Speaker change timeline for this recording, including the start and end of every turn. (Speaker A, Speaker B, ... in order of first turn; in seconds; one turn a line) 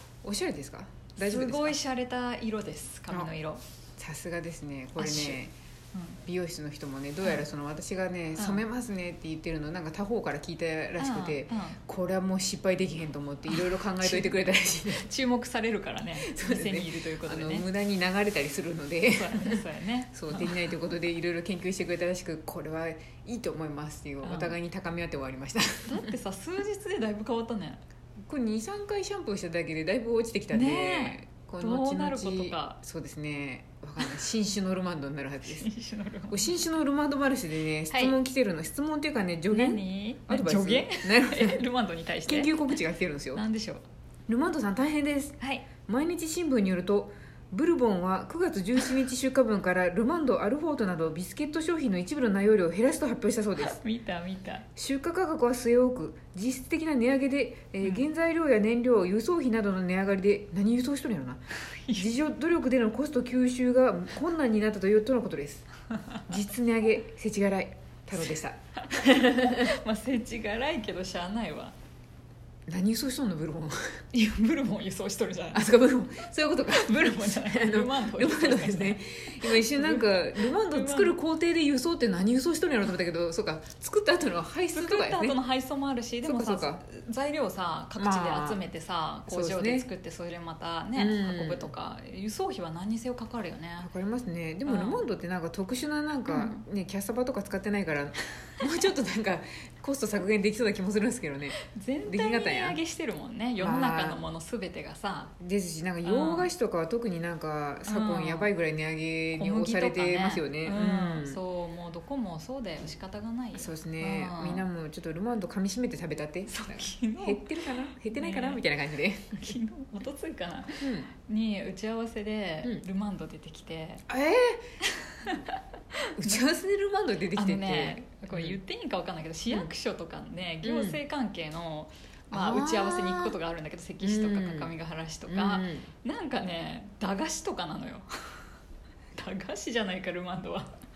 Speaker A: 0.2-1.8
Speaker B: 1.2-3.6
Speaker A: 4.0-5.5
Speaker B: 5.0-5.4
Speaker B: 5.9-6.2
Speaker A: 6.2-15.1
Speaker B: 8.4-8.7
Speaker B: 11.0-11.8
Speaker B: 13.5-17.7
Speaker A: 16.2-26.1
Speaker B: 19.1-20.6
Speaker B: 24.2-24.6
Speaker B: 25.9-27.8
Speaker A: 28.3-35.7
Speaker B: 30.5-32.8
Speaker B: 35.5-36.5
Speaker A: 36.3-41.6
Speaker B: 37.9-38.2
Speaker B: 39.5-42.7
Speaker A: 42.3-43.4
Speaker B: 43.4-43.8
Speaker A: 44.3-53.8
Speaker B: 45.4-45.6
Speaker B: 53.6-54.7
Speaker A: 54.8-65.7
Speaker B: 61.7-62.1
Speaker A: 66.3-69.7
Speaker B: 68.8-71.7
Speaker A: 72.7-73.8
Speaker B: 74.1-75.7
Speaker A: 75.5-85.4
Speaker B: 76.7-81.2
Speaker B: 84.7-93.9
Speaker A: 86.2-86.8
Speaker A: 88.0-88.6
Speaker A: 89.3-89.9
Speaker A: 91.0-91.7
Speaker A: 93.8-102.8
Speaker B: 94.7-95.0
Speaker B: 96.3-96.6
Speaker B: 101.6-105.3
Speaker A: 103.6-104.3
Speaker A: 105.4-111.4
Speaker B: 106.0-106.5
Speaker B: 107.9-108.5
Speaker B: 109.4-114.7
Speaker A: 113.5-119.6
Speaker B: 116.5-118.6
Speaker B: 119.3-124.0
Speaker A: 120.8-121.1
Speaker A: 124.1-124.6
Speaker B: 124.8-125.6
Speaker A: 126.2-128.6
Speaker B: 126.2-126.4
Speaker B: 127.3-138.1
Speaker A: 130.6-131.0
Speaker A: 132.3-133.3
Speaker A: 134.0-134.7
Speaker A: 135.3-135.9
Speaker B: 139.2-140.7